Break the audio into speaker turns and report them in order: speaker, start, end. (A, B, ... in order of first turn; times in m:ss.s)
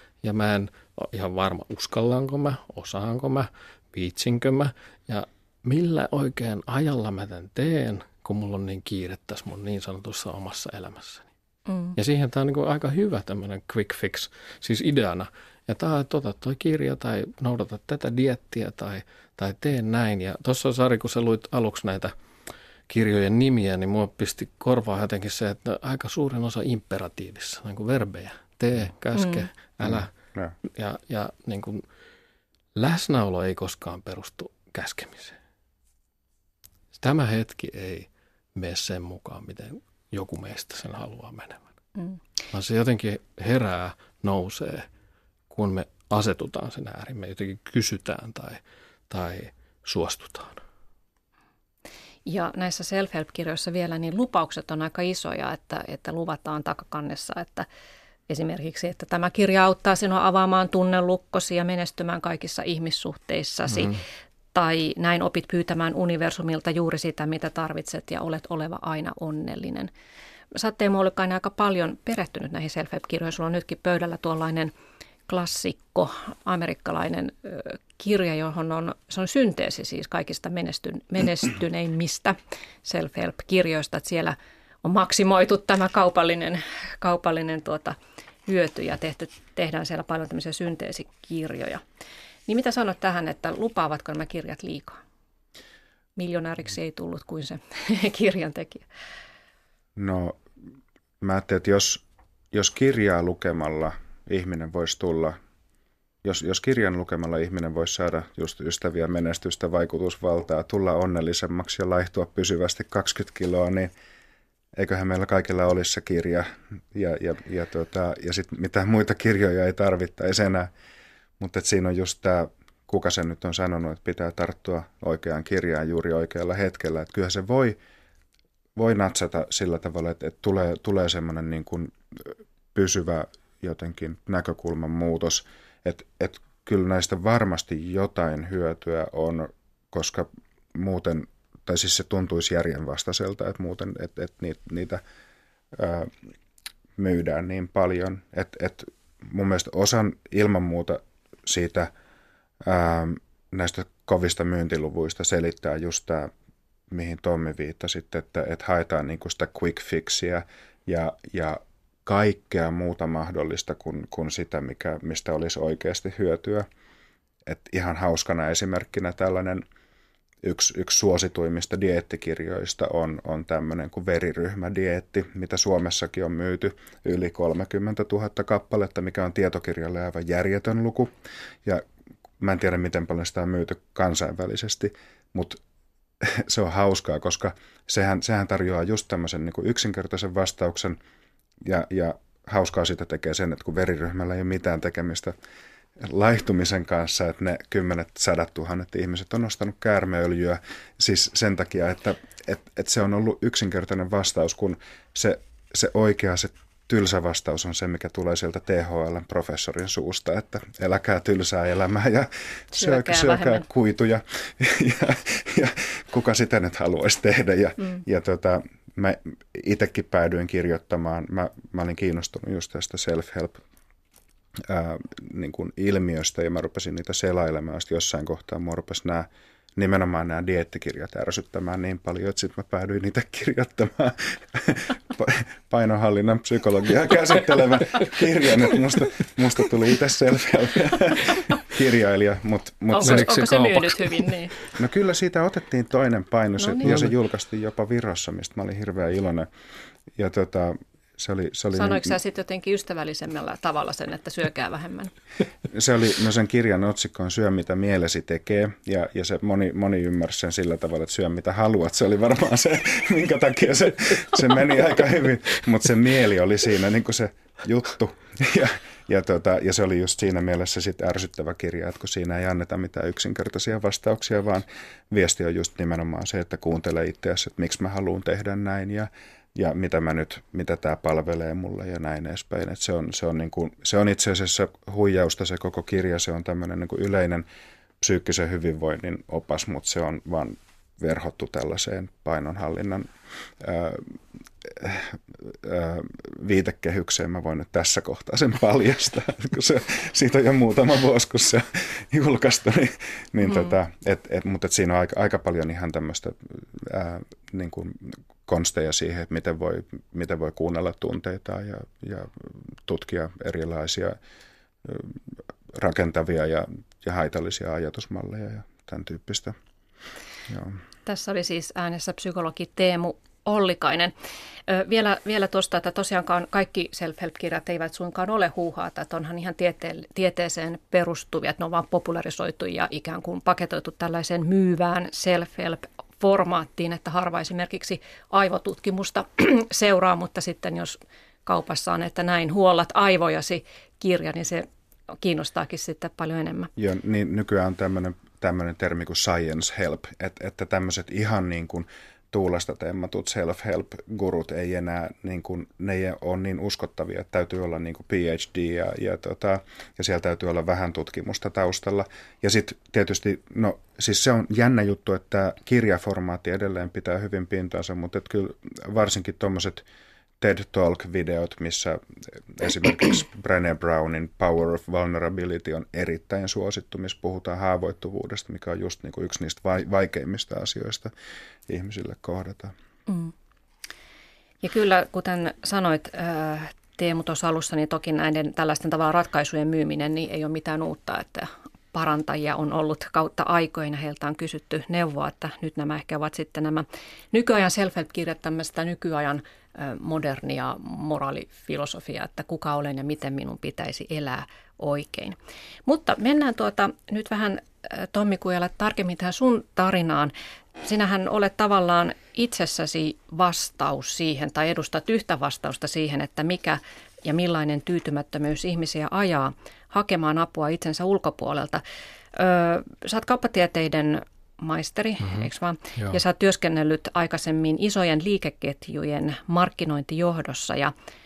0:00.2-0:11.3 A
0:11.7-0:11.9 B
0:11.9-0:22.1 A
0:22.9-0:30.1 A
0:29.2-0:29.4 B
0:29.8-0:30.5 C
0:30.6-0:31.8 A
0:32.7-0:35.4 A
0:36.9-0:41.7 A
0:42.5-0:44.9 A
0:45.5-0:50.6 A
0:52.2-0:57.7 B
0:58.3-1:04.0 B
1:03.7-1:04.0 A
1:04.5-1:09.9 B
1:10.5-1:14.7 B
1:15.3-1:31.8 B
1:32.5-1:35.0 B
1:36.2-1:38.9 B
1:40.0-1:40.4 C
1:41.2-1:45.4 C
1:46.2-1:53.9 C
1:54.8-2:00.7 C
2:01.4-2:07.8 C
2:08.8-2:25.0 C
2:25.7-2:26.1 C
2:27.0-2:31.9 C
2:32.6-2:36.3 C
2:36.9-2:46.7 C
2:47.4-2:49.6 C
2:50.4-3:01.1 C
3:02.4-3:05.6 C
3:06.2-3:11.0 C
3:11.6-3:15.3 C
3:16.0-3:43.6 C
3:32.7-3:33.6 B
3:44.6-4:03.3 C
4:02.9-4:04.6 B
4:03.0-4:04.3 A
4:04.7-4:09.5 C
4:06.8-4:07.1 A
4:10.1-4:12.2 C
4:11.7-4:15.1 B
4:15.7-4:47.4 C
4:48.0-5:14.2 C
5:14.8-5:15.2 C
5:15.7-5:19.5 C
5:20.5-5:20.8 C
5:21.0-5:24.1 B
5:24.7-5:46.7 B
5:46.8-6:09.8 C
6:10.4-6:21.1 C
6:21.7-6:22.7 C
6:23.1-6:23.3 B
6:24.6-7:01.8 B
7:02.3-7:10.9 B
7:05.2-7:06.2 A